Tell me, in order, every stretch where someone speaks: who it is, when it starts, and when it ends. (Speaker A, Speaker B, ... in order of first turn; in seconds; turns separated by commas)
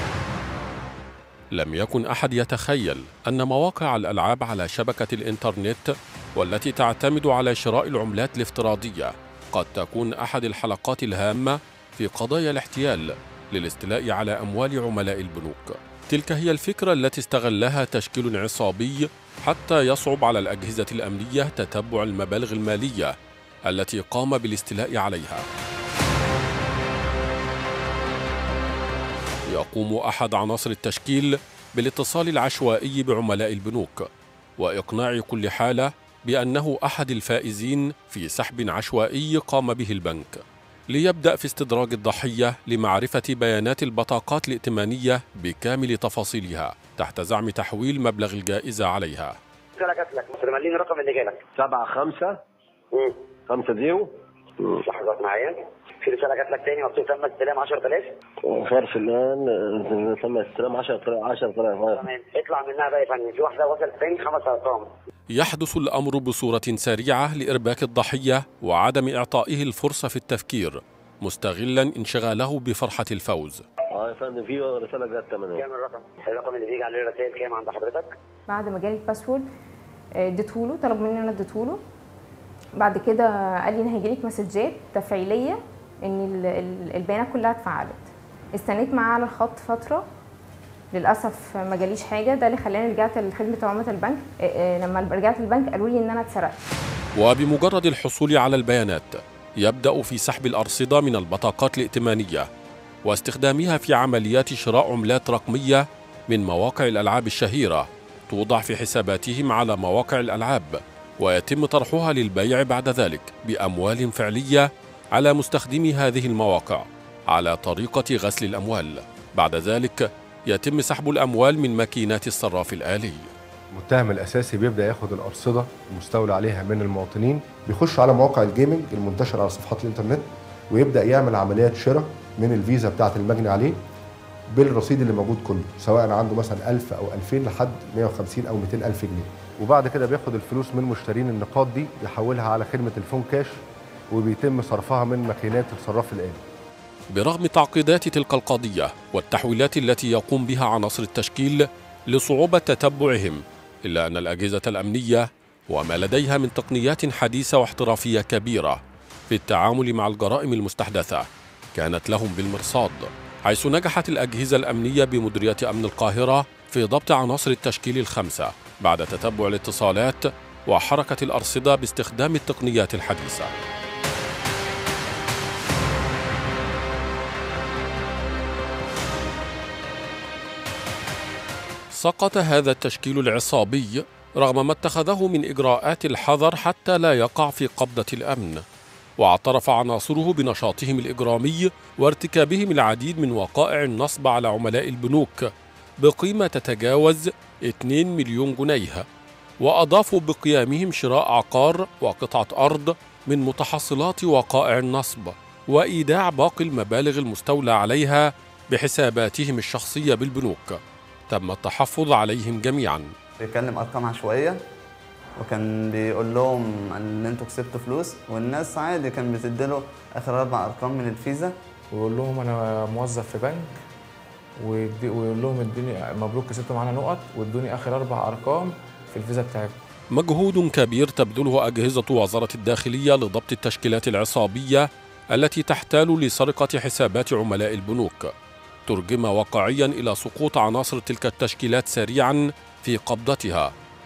Speaker A: 1.5-23.1, Speaker A: 23.7-25.4, Speaker A: 29.5-49.4, Speaker B: 49.8-51.4, Speaker C: 51.5-52.4, Speaker B: 52.9-53.2, Speaker C: 53.5-54.1, Speaker B: 54.8-58.1, Speaker C: 58.4-62.1, Speaker B: 62.0-64.9, Speaker A: 65.3-73.6, Speaker C: 73.9-75.7, Speaker B: 75.5-78.1, Speaker D: 78.5-79.5, Speaker D: 80.2-81.8, Speaker D: 82.8-90.0, Speaker D: 90.9-96.6, Speaker A: 97.2-102.5, Speaker A: 103.0-123.3, Speaker E: 123.7-133.8, Speaker E: 134.5-146.4, Speaker A: 147.1-173.6, Speaker A: 181.9-188.6, Speaker A: 189.2-199.1, Speaker A: 199.6-213.1, Speaker F: 213.4-214.6, Speaker F: 215.4-221.6, Speaker G: 221.9-223.7, Speaker G: 224.6-229.7, Speaker A: 230.1-238.3, Speaker A: 238.9-243.7